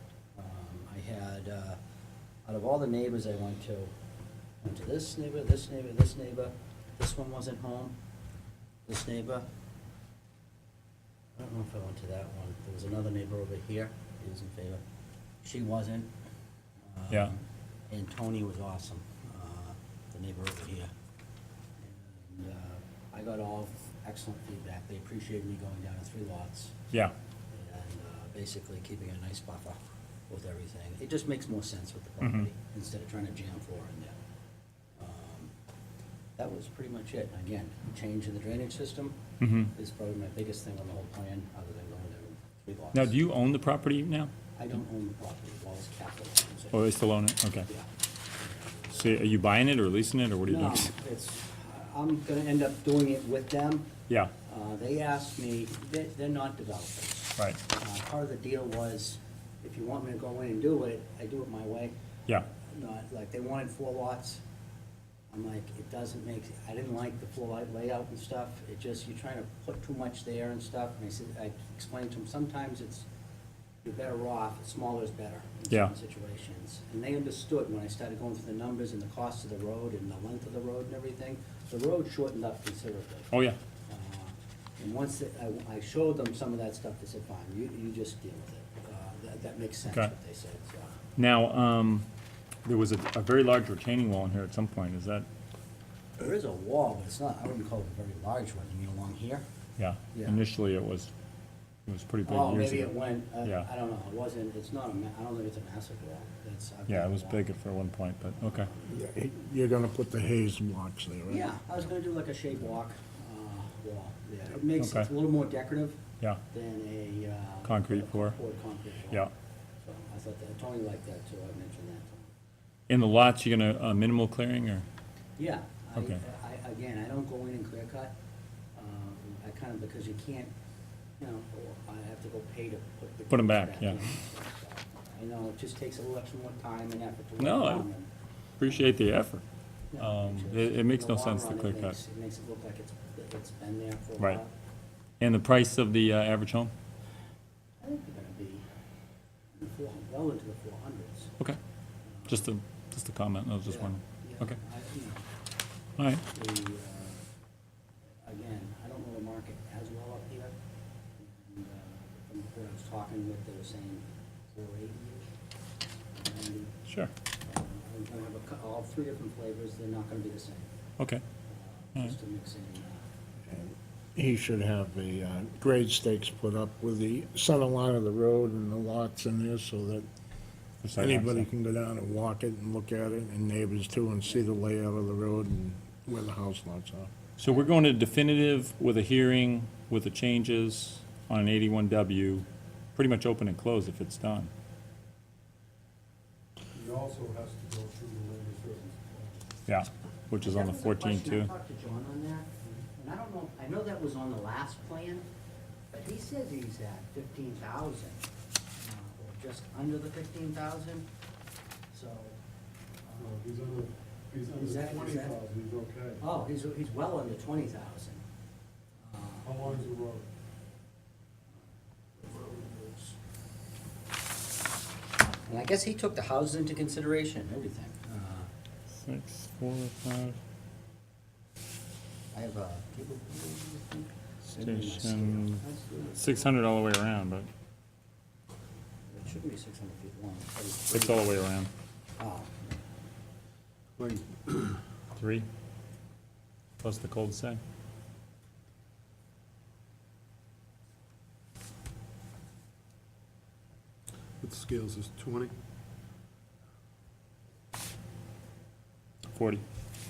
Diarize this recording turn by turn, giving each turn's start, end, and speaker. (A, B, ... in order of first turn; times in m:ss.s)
0:00.3-0:01.8 A
0:02.4-0:03.9 A
0:04.6-0:08.0 A
0:08.9-0:09.5 A
0:11.4-0:14.8 A
0:15.4-0:16.1 A
0:16.9-0:20.9 A
0:21.8-0:27.0 A
0:27.5-0:34.2 A
0:35.0-0:35.5 A
0:36.4-0:39.2 A
0:39.4-0:39.7 B
0:39.7-0:43.1 A
0:42.9-0:44.3 B
0:44.6-0:46.9 A
0:46.7-0:47.7 B
0:48.4-0:49.2 A
0:48.9-0:50.9 B
0:50.4-0:53.9 A
0:54.4-1:04.4 A
1:05.3-1:13.1 A
1:13.8-1:23.3 A
1:23.3-1:23.6 B
1:23.9-1:31.0 A
1:31.2-1:32.1 B
1:32.6-1:35.3 B
1:36.2-1:39.4 A
1:39.8-1:41.1 B
1:40.1-1:40.4 A
1:41.9-1:43.7 B
1:42.2-1:47.5 A
1:46.9-1:48.7 B
1:48.4-1:48.9 A
1:48.8-1:51.6 C
1:51.3-1:59.3 A
1:54.8-1:55.1 B
1:57.6-1:58.4 B
1:59.8-2:02.3 A
2:02.9-2:04.8 B
2:05.4-2:08.1 A
2:08.7-2:10.5 A
2:11.2-2:18.1 A
2:13.3-2:14.0 B
2:17.4-2:17.9 B
2:18.6-2:19.4 B
2:19.9-2:24.5 A
2:20.0-2:22.0 B
2:25.2-2:26.7 B
2:27.8-2:28.7 A
2:29.5-2:31.3 A
2:32.1-2:32.4 A
2:32.3-2:34.6 B
2:33.6-2:35.2 A
2:36.0-2:36.2 B
2:36.2-2:37.2 A
2:38.2-2:40.5 A
2:41.2-2:45.3 A
2:46.1-2:46.7 A
2:46.9-2:47.1 B
2:47.4-2:50.7 A
2:51.0-2:51.2 B
2:51.5-2:53.1 A
2:53.5-3:00.1 C
3:00.8-3:01.5 B
3:01.0-3:07.1 C
3:07.4-3:14.5 B
3:16.7-3:19.4 D
3:19.7-3:21.5 B
3:20.4-3:25.2 A
3:25.9-3:28.2 A
3:28.8-3:31.1 A
3:31.9-3:32.4 A
3:33.0-3:33.4 A
3:33.2-3:36.2 D
3:34.5-3:35.4 A
3:36.2-3:38.2 A
3:39.0-3:39.9 A
3:39.4-3:40.3 D
3:42.2-3:43.1 A
3:45.4-3:48.5 A
3:48.9-3:50.4 B
3:52.3-3:56.5 A
3:54.6-3:57.5 B
3:59.1-4:01.2 A
4:00.9-4:01.7 B
4:02.2-4:02.6 A
4:04.0-4:04.8 D
4:05.1-4:05.5 B
4:06.8-4:07.6 B
4:14.4-4:15.5 D
4:19.3-4:19.6 B